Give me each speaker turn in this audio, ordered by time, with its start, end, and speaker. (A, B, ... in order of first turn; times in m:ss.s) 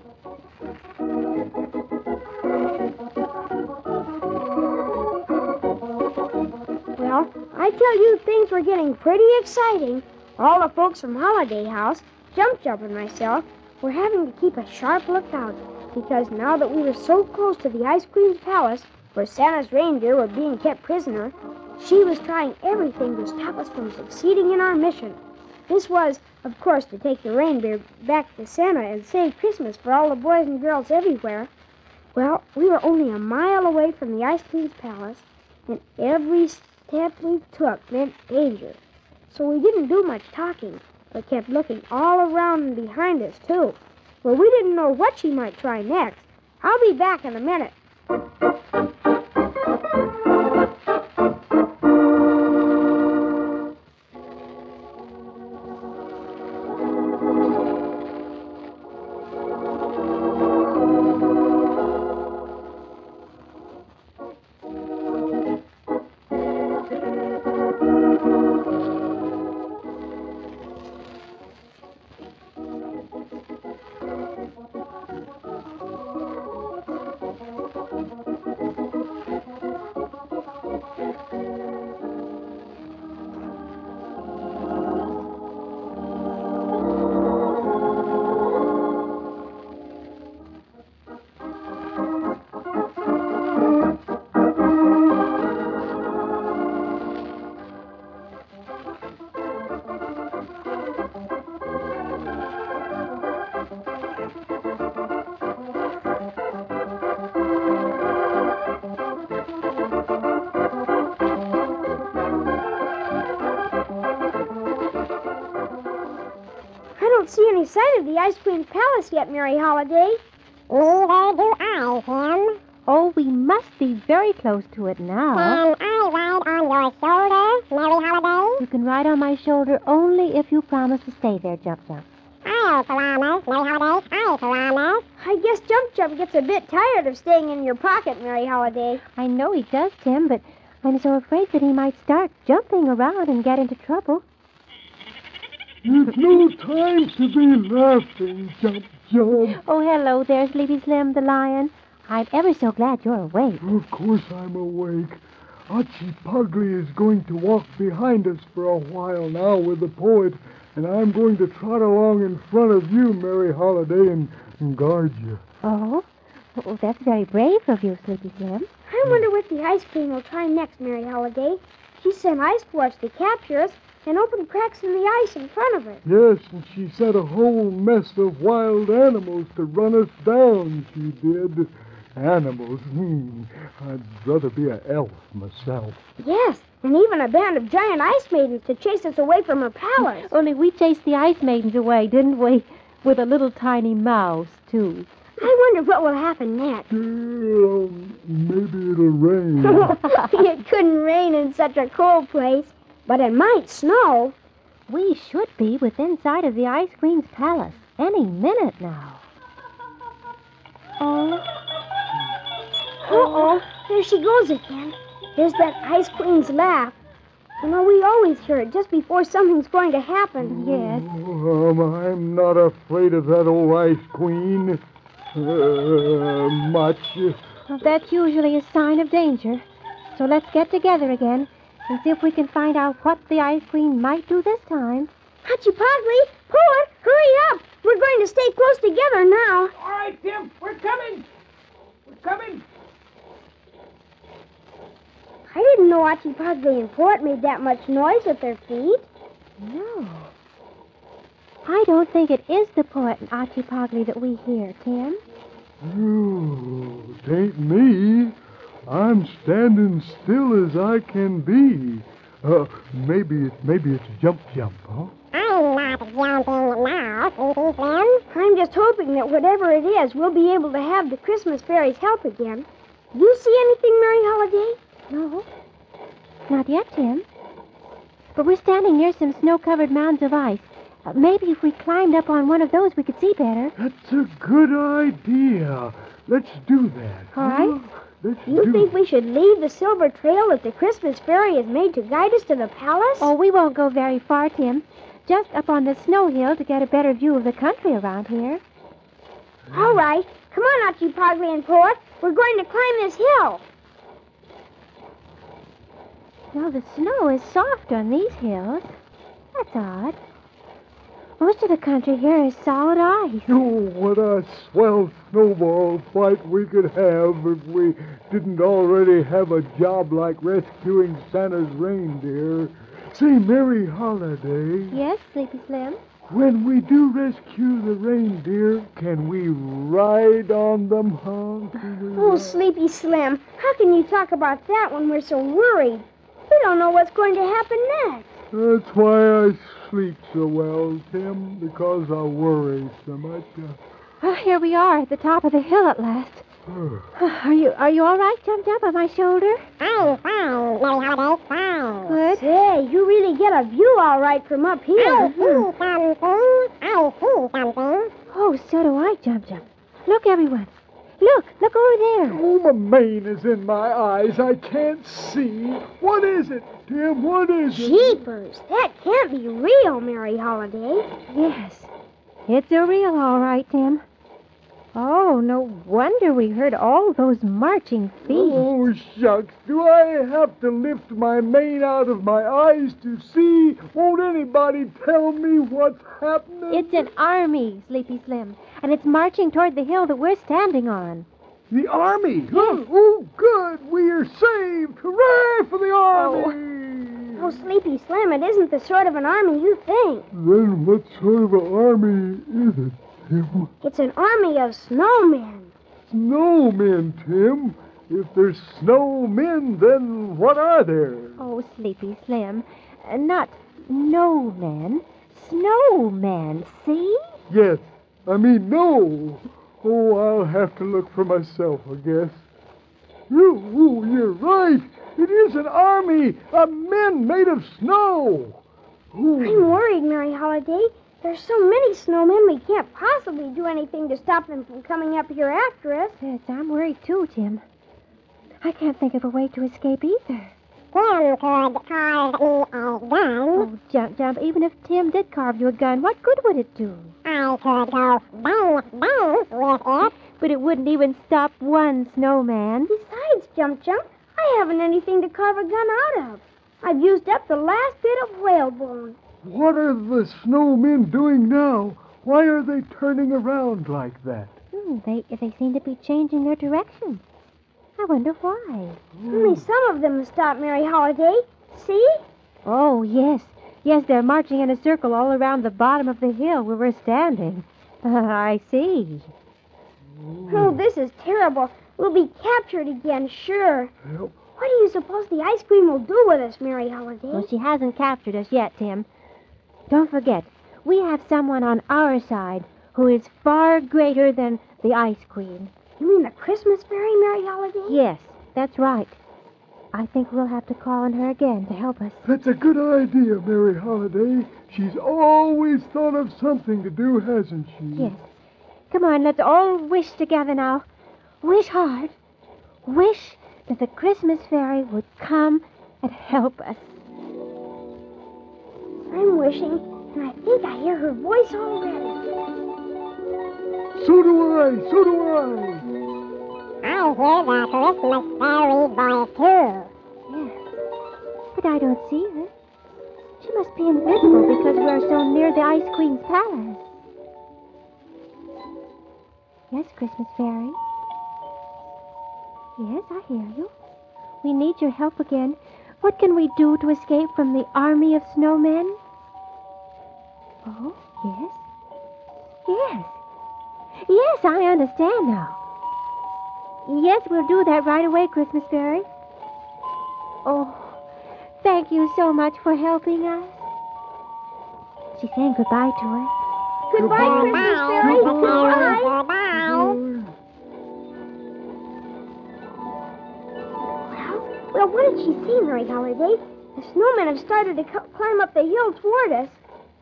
0:07.0-0:31.5 A
0:32.1-0:47.8 A
1:57.0-2:00.2 A
2:00.7-2:02.6 B
2:02.9-2:05.6 C
2:05.6-2:08.5 B
2:08.6-2:12.1 C
2:12.4-2:15.0 B
2:15.2-2:19.0 A
2:19.2-2:24.2 C
2:25.8-2:29.6 D
2:29.5-2:33.6 C
2:33.6-2:45.4 D
2:45.6-2:48.7 C
2:48.9-2:56.0 A
2:56.0-3:06.0 D
3:06.2-3:10.3 A
3:10.0-3:15.1 C
3:15.4-3:16.9 A
3:16.9-3:20.0 D
3:19.6-3:24.4 A
3:24.9-3:29.2 C
3:31.0-3:31.4 C
3:33.0-3:37.0 A
3:33.1-3:33.6 C
3:37.6-3:40.6 A
3:40.5-3:44.8 D
3:40.5-3:41.1 C
3:45.4-3:47.4 D
3:47.7-3:55.1 C
3:55.4-3:59.7 A
3:59.8-4:01.3 E
4:02.1-4:02.6 E
4:05.5-4:09.0 A
4:09.6-4:10.3 C
4:11.6-4:15.2 C
4:15.8-4:18.4 D
4:18.9-4:25.1 D
4:25.4-4:28.1 B
4:28.3-4:34.8 A
4:35.1-4:35.5 C
4:36.5-4:37.3 C
4:38.4-4:43.7 C
4:43.8-4:48.9 D
4:47.3-4:47.8 C
4:48.5-4:53.3 A
4:53.2-4:58.6 C
4:59.7-5:00.0 D
4:59.7-5:03.6 A
5:06.5-5:09.0 C
5:09.6-5:10.2 C
5:11.4-5:13.5 C
5:13.5-5:25.0 D
5:24.9-5:26.0 C
5:26.2-5:32.6 D
5:32.2-5:38.3 A
5:38.5-5:43.8 D
5:44.2-5:46.5 C
5:46.7-5:47.1 D
5:47.2-5:49.7 C
5:50.0-5:51.9 B
5:52.0-5:52.4 C
5:52.4-5:55.6 A
5:55.2-5:55.6 C
5:55.7-5:58.1 B
5:58.3-6:02.4 C
6:02.3-6:08.2 D
6:07.7-6:11.1 A
6:11.3-6:11.9 C
6:12.5-6:14.0 C
6:14.9-6:18.7 C
6:18.3-6:27.1 D
6:26.7-6:31.3 C
6:31.7-6:37.6 D
6:32.5-6:32.9 C
6:36.1-6:36.6 C
6:37.4-6:40.3 A
6:40.3-6:43.7 D
6:43.8-6:45.7 A
6:46.1-6:51.4 D
6:51.4-6:57.4 C
6:57.5-7:02.4 D
7:03.3-7:08.6 D
7:09.1-7:09.8 D
7:09.4-7:16.2 A
7:16.2-7:17.6 C
7:18.6-7:20.5 C
7:21.0-7:23.5 B
7:23.5-7:27.2 C
7:27.3-7:30.0 B
7:30.2-7:32.9 C
7:32.9-7:39.2 A
7:39.4-7:44.6 D
7:44.7-7:47.2 C
7:48.0-7:49.0 C
7:49.2-7:49.6 D
7:49.3-7:52.2 A
7:52.6-7:59.3 C
8:00.1-8:00.8 D
8:00.5-8:03.9 A
8:04.0-8:04.4 D
8:04.6-8:07.5 A
8:07.3-8:09.1 C
8:09.9-8:15.7 C
8:16.0-8:18.0 A
8:17.8-8:19.2 C
8:19.9-8:22.2 C
8:22.2-8:28.1 D
8:28.0-8:28.4 C
8:28.9-8:30.9 C
8:31.4-8:32.2 C
8:32.8-8:37.0 C
8:39.1-8:42.2 A
8:44.0-8:45.8 D
8:46.9-8:49.9 B
8:50.3-8:50.6 C
8:51.6-8:52.5 C
8:53.4-8:56.9 C
8:59.7-9:00.8 C
9:02.8-9:03.7 C
9:04.4-9:09.0 C
9:10.6-9:11.6 C
9:12.7-9:13.2 C
9:14.0-9:15.6 C
9:16.8-9:19.1 C
9:20.4-9:21.0 C
9:21.6-9:23.7 C
9:25.2-9:26.3 C
9:26.9-9:29.2 A
9:27.0-9:30.4 D
9:34.1-9:39.6 A